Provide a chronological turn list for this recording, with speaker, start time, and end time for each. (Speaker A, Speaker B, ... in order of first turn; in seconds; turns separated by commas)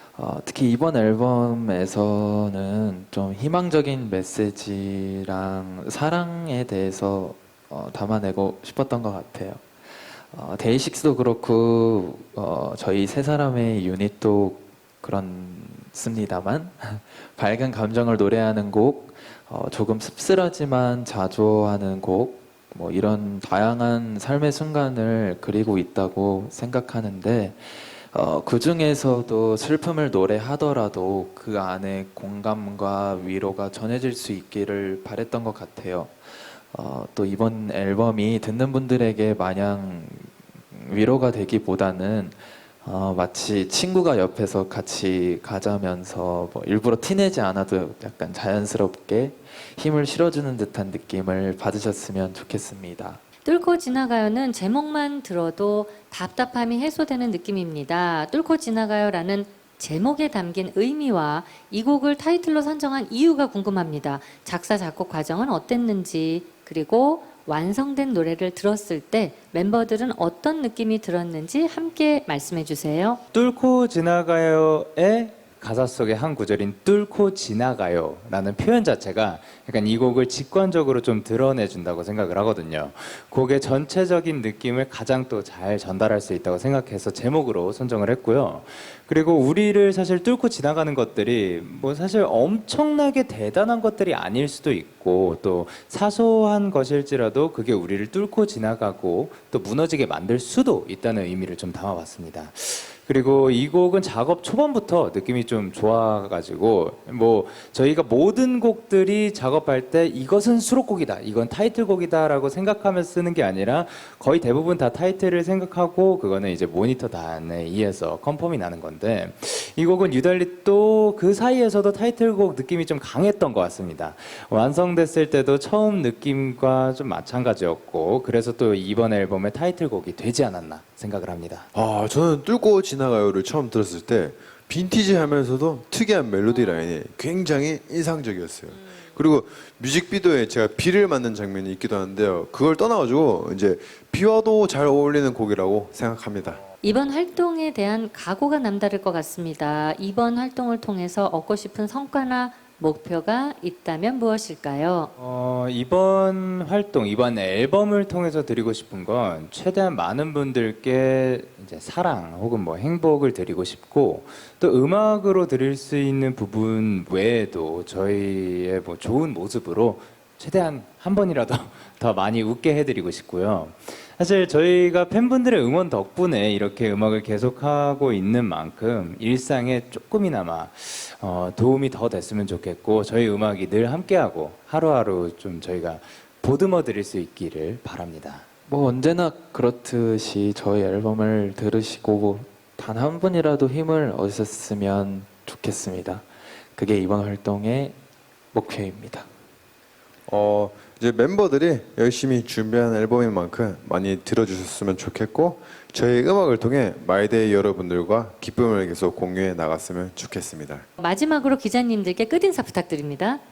Speaker A: 0.1-9.6, Speaker A: 10.3-53.2, Speaker B: 53.4-73.2, Speaker C: 73.3-131.7, Speaker D: 131.7-146.6, Speaker B: 146.8-155.1, Speaker C: 155.2-188.4, Speaker A: 188.7-198.0, Speaker A: 198.5-199.3, Speaker D: 200.3-210.9, Speaker B: 211.0-213.4